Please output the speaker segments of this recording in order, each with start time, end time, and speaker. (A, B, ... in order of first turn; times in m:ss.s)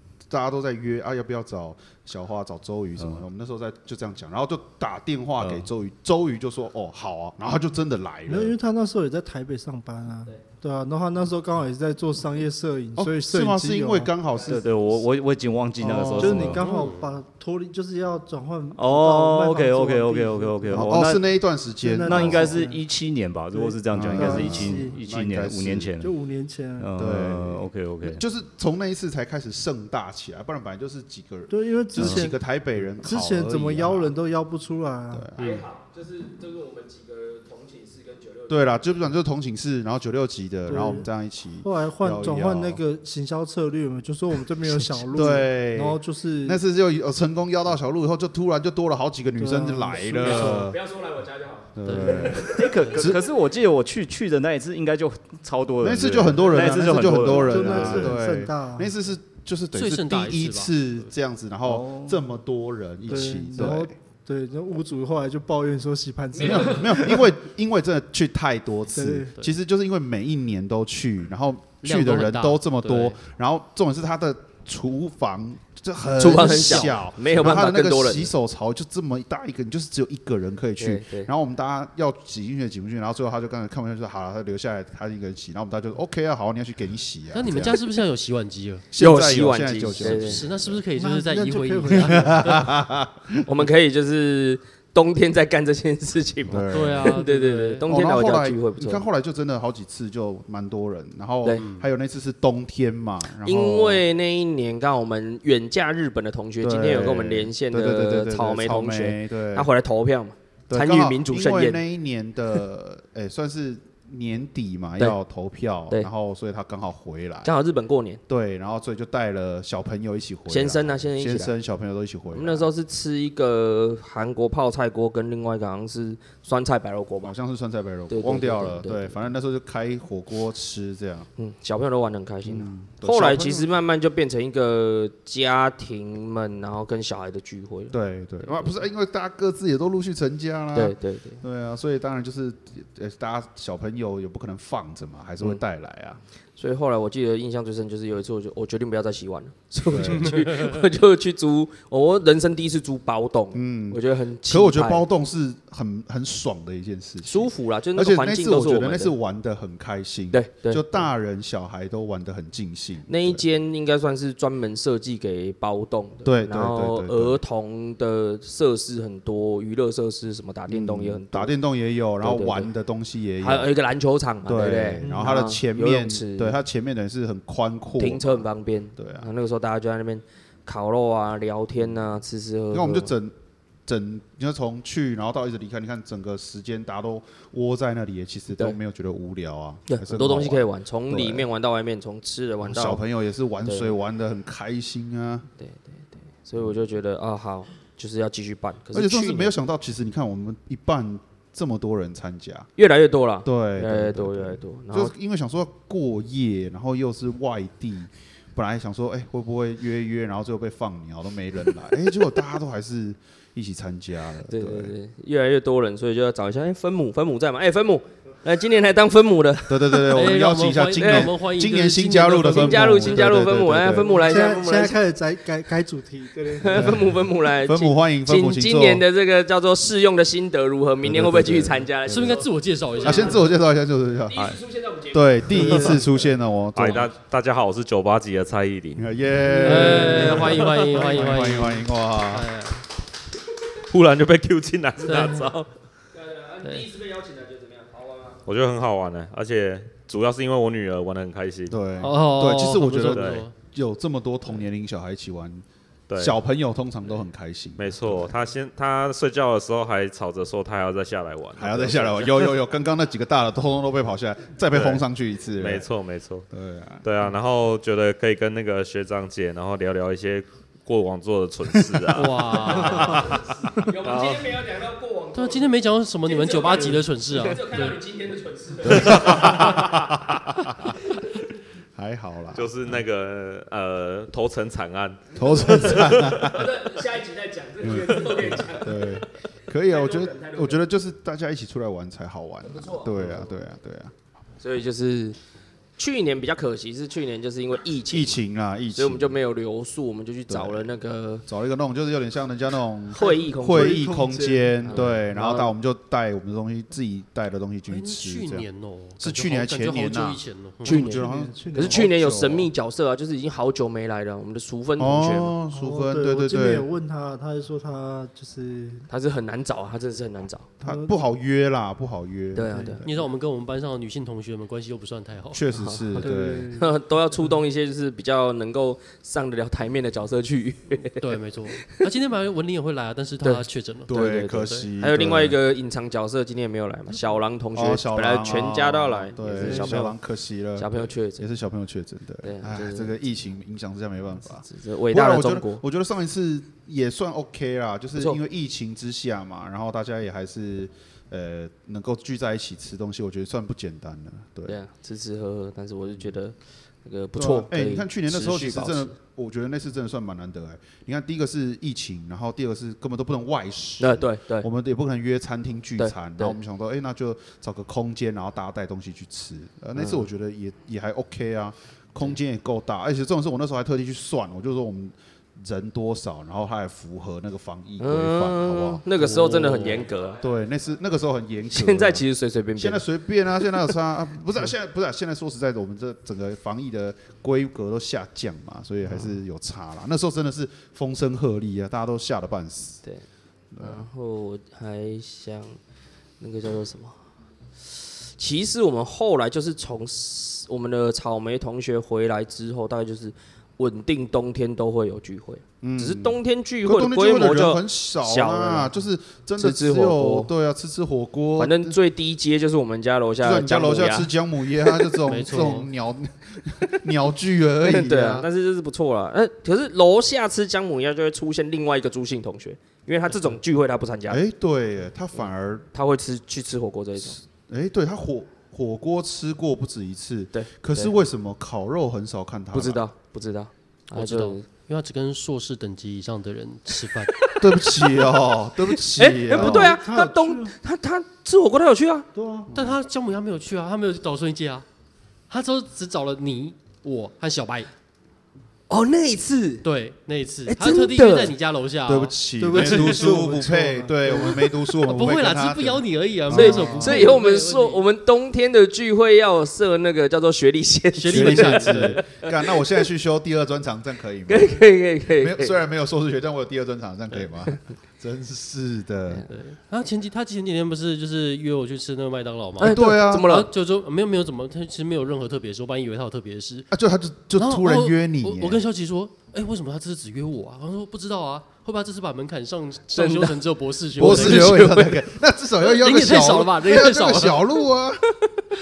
0:00.3-0:08.5 A
0:03.0-0:03.2 B
0:05.4-0:05.7 B
0:08.3-0:14.1 C
0:13.0-0:15.0 A
0:14.4-0:16.6 B
0:15.8-0:16.6 A
0:16.1-0:21.1 C
0:16.6-0:17.0 D
0:18.8-0:21.2 B
0:20.7-0:22.6 A
0:21.8-0:22.8 C
0:22.0-0:26.1 B
0:23.5-0:25.0 C
0:23.9-0:26.0 A
0:26.0-0:26.9 C
0:26.8-0:28.2 B
0:27.0-0:34.2 A
0:31.5-0:32.4 C
0:32.0-0:32.3 B
0:33.0-0:35.3 C
0:35.1-0:35.6 A
0:35.4-0:35.6 D
0:35.4-0:38.8 E
0:38.5-0:42.8 A
0:40.7-0:41.1 C
0:41.6-0:46.6 C
0:44.7-0:50.8 A
0:49.4-0:50.5 C
0:50.2-0:50.7 D
0:50.4-0:52.6 E
0:51.8-0:53.2 A
0:51.8-0:53.0 D
0:52.4-0:58.1 B
0:55.8-1:03.9 A
0:57.2-0:58.9 C
0:59.7-1:01.0 D
1:01.7-1:02.2 B
1:03.1-1:07.3 C
1:06.4-1:27.8 A
1:09.0-1:09.3 C
1:11.8-1:13.2 D
1:16.2-1:18.3 E
1:16.3-1:17.0 D
1:20.8-1:21.3 E
1:27.3-1:28.9 D
1:28.9-1:30.8 A
1:29.0-1:30.4 E
1:30.0-1:32.7 D
1:31.0-1:32.6 C
1:31.9-1:33.4 A
1:33.4-1:39.1 E
1:36.5-1:37.2 A
1:36.6-1:37.8 D
1:37.8-1:44.0 A
1:41.6-1:41.8 D
1:43.4-1:51.8 E
1:46.6-1:49.7 A
1:50.7-1:57.5 A
1:57.4-1:58.2 E
1:58.3-2:02.7 A
2:00.5-2:01.5 E
2:02.3-2:07.3 E
2:07.2-2:11.3 A
2:08.1-2:09.3 E
2:11.4-2:18.8 E
2:12.4-2:13.7 A
2:17.9-2:26.2 A
2:20.8-2:21.4 E
2:26.6-2:35.0 E
2:29.9-2:30.3 A
2:30.2-2:30.6 D
2:33.5-2:43.4 A
2:37.2-2:39.1 E
2:40.3-2:41.0 E
2:43.1-2:51.5 E
2:46.2-2:47.4 A
2:50.7-2:53.7 A
2:52.2-2:52.7 E
2:53.4-2:56.6 E
2:54.4-2:58.4 A
2:55.0-2:55.4 C
2:58.0-3:03.1 E
2:59.0-2:59.3 A
3:02.7-3:03.4 A
3:03.9-3:11.5 A
3:09.9-3:13.0 E
3:12.6-3:15.5 A
3:15.6-3:19.5 E
3:18.9-3:22.7 A
3:22.8-3:25.1 E
3:23.4-3:34.9 A
3:34.5-3:40.4 E
3:39.7-3:44.2 A
3:40.1-3:43.4 D
3:41.0-3:41.3 E
3:42.5-3:45.0 E
3:44.2-3:47.0 C
3:46.6-3:53.4 E
3:46.7-3:49.0 A
3:51.0-3:52.4 A
3:52.1-3:53.4 D
3:53.0-3:57.1 A
3:54.3-3:56.1 E
3:56.8-3:59.1 F
3:59.0-4:02.5 A
3:59.6-4:02.8 D
3:59.7-4:00.5 E
4:03.9-4:05.7 F
4:05.0-4:05.5 D
4:06.2-4:08.4 E
4:06.6-4:06.9 D
4:08.5-4:11.8 F
4:11.7-4:15.6 A
4:12.0-4:13.5 D
4:13.1-4:13.4 F
4:16.1-4:16.4 F
4:16.2-4:18.3 A
4:17.8-4:22.6 F
4:21.6-4:25.9 A
4:24.7-4:25.0 F
4:25.6-4:26.5 F
4:26.5-4:27.1 A
4:27.0-4:32.8 F
4:31.8-4:33.9 A
4:32.2-4:33.3 D
4:32.8-4:35.7 E
4:34.0-4:34.4 F
4:35.3-4:38.0 D
4:36.2-4:39.8 E
4:38.8-4:41.0 A
4:42.0-4:43.0 A
4:42.5-4:46.5 F
4:45.4-4:46.9 A
4:45.4-4:49.2 E
4:47.8-4:54.1 A
4:49.9-4:50.8 E
4:52.7-4:53.5 E
4:54.6-4:55.4 E
4:56.0-4:58.4 E
4:58.1-4:59.4 A
4:58.9-5:01.4 E
5:00.5-5:00.9 A
5:01.5-5:08.7 A
5:03.1-5:04.0 E
5:03.2-5:04.9 C
5:04.8-5:05.7 E
5:07.9-5:11.1 D
5:09.2-5:12.7 A
5:10.8-5:15.5 E
5:11.0-5:12.0 C
5:15.0-5:16.9 A
5:15.7-5:19.1 C
5:19.1-5:20.7 E
5:20.8-5:23.1 A
5:20.8-5:21.2 C
5:22.6-5:23.0 E
5:22.7-5:23.0 C
5:23.0-5:25.6 D
5:25.5-5:26.7 A
5:25.7-5:26.2 E
5:26.2-5:26.9 C
5:26.8-5:31.3 E
5:31.2-5:34.9 D
5:33.4-5:40.2 E
5:34.1-5:35.6 A
5:37.8-5:54.8 A
5:40.8-5:41.5 E
5:42.4-5:43.2 E
5:44.6-5:45.8 E
5:54.7-5:59.1 E
5:57.4-6:22.2 A
6:04.0-6:04.7 E
6:06.0-6:06.6 E
6:10.0-6:10.3 E
6:18.0-6:20.4 E
6:21.7-6:23.0 E
6:22.8-6:33.0 A
6:33.7-6:34.1 A
6:33.8-6:35.8 E
6:36.4-6:37.2 E
6:37.9-6:48.9 E
6:45.8-6:52.0 A
6:49.6-6:50.5 E
6:51.6-6:54.3 E
6:53.4-6:58.5 A
6:54.9-6:55.2 E
6:55.3-6:55.9 D
6:57.8-7:04.4 E
7:04.3-7:05.9 A
7:05.9-7:07.4 E
7:07.2-7:13.0 A
7:10.5-7:11.1 E
7:12.7-7:14.6 E
7:14.1-7:17.4 D
7:17.5-7:18.3 E
7:17.6-7:20.0 A
7:19.1-7:22.3 E
7:19.5-7:20.8 C
7:22.4-7:22.7 C
7:22.7-7:23.0 A
7:22.7-7:24.8 D
7:25.5-7:27.9 D
7:28.9-7:29.8 E
7:29.8-7:33.3 D
7:30.7-7:31.5 E
7:32.1-7:37.4 A
7:32.6-7:34.6 C
7:35.0-7:38.0 D
7:36.5-7:42.8 E
7:41.1-7:42.2 D
7:41.3-7:49.5 A
7:44.5-7:45.7 E
7:49.5-7:56.9 D
7:52.8-7:53.7 E
7:52.8-7:53.7 A
7:56.9-7:58.8 A
7:57.6-8:05.1 D
8:03.2-8:03.6 E
8:04.2-8:08.6 A
8:04.2-8:05.3 E
8:05.8-8:07.7 D